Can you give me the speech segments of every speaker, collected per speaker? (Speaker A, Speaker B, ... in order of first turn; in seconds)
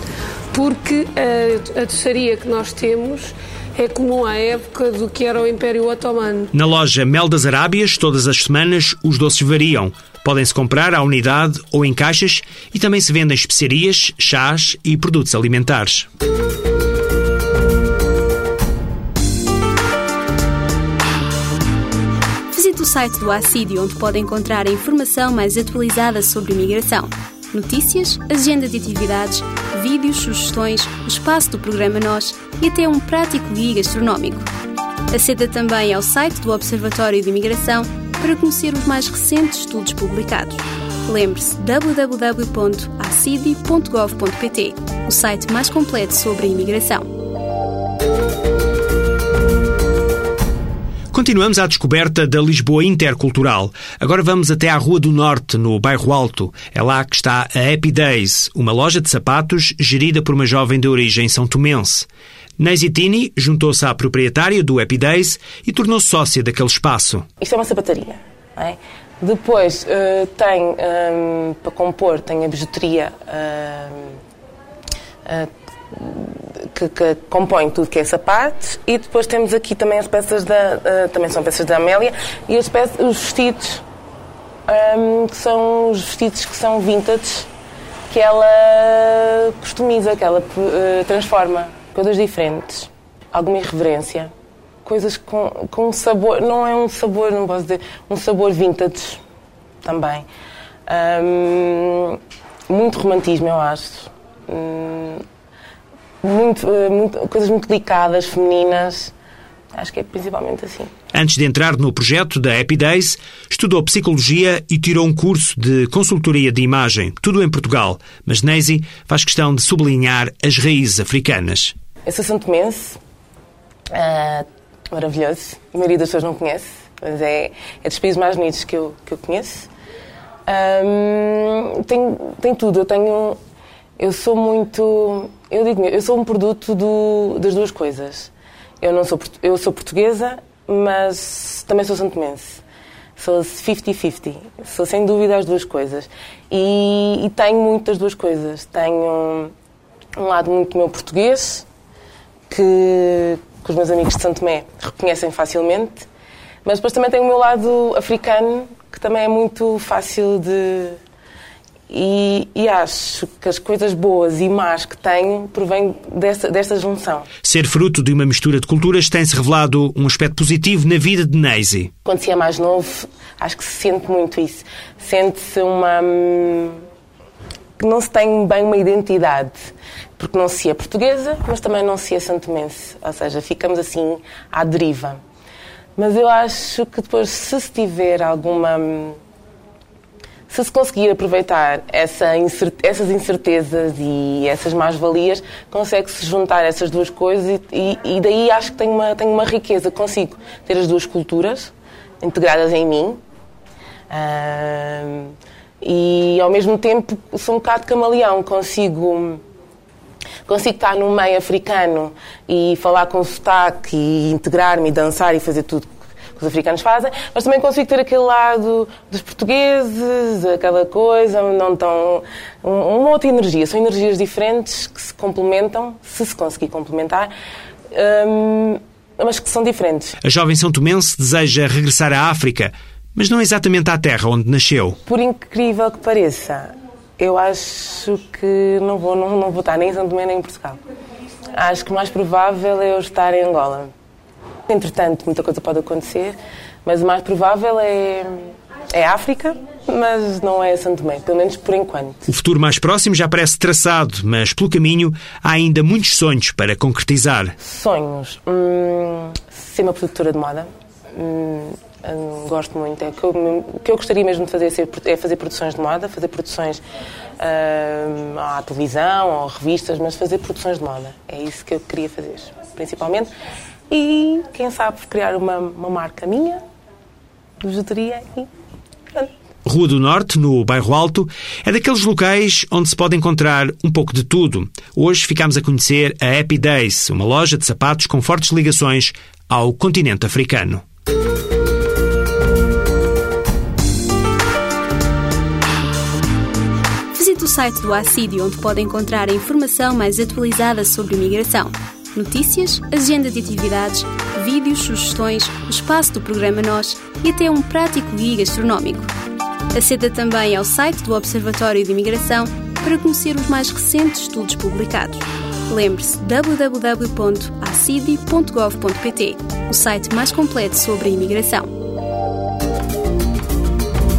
Speaker A: 0.5-6.5
Speaker B: 6.5-16.1, 51.1-62.1, 62.6-67.2, 111.1-121.7, 167.4-171.9, 230.2-235.0, 252.2-257.5, 279.7-290.8
Speaker C: 22.5-34.5, 35.1-47.1, 297.1-309.1, 309.7-321.7
Speaker D: 67.4-74.2, 75.2-83.8, 84.7-87.5, 88.1-94.3, 94.8-99.2, 99.8-100.2, 100.9-105.2, 106.2-109.1, 109.7-110.9, 122.1-123.0, 123.9-129.7, 130.5-133.4, 134.0-142.6, 143.2-149.5, 150.2-151.7, 152.5-156.1, 156.7-161.0, 161.9-167.3, 172.1-176.7, 177.8-185.2, 185.9-189.2, 190.5-203.2, 204.1-209.4, 210.4-227.3, 227.9-230.2, 235.1-240.8, 241.6-243.9, 244.7-248.3, 248.9-252.2, 257.6-266.8, 267.4-273.3, 273.9-276.6, 277.6-278.5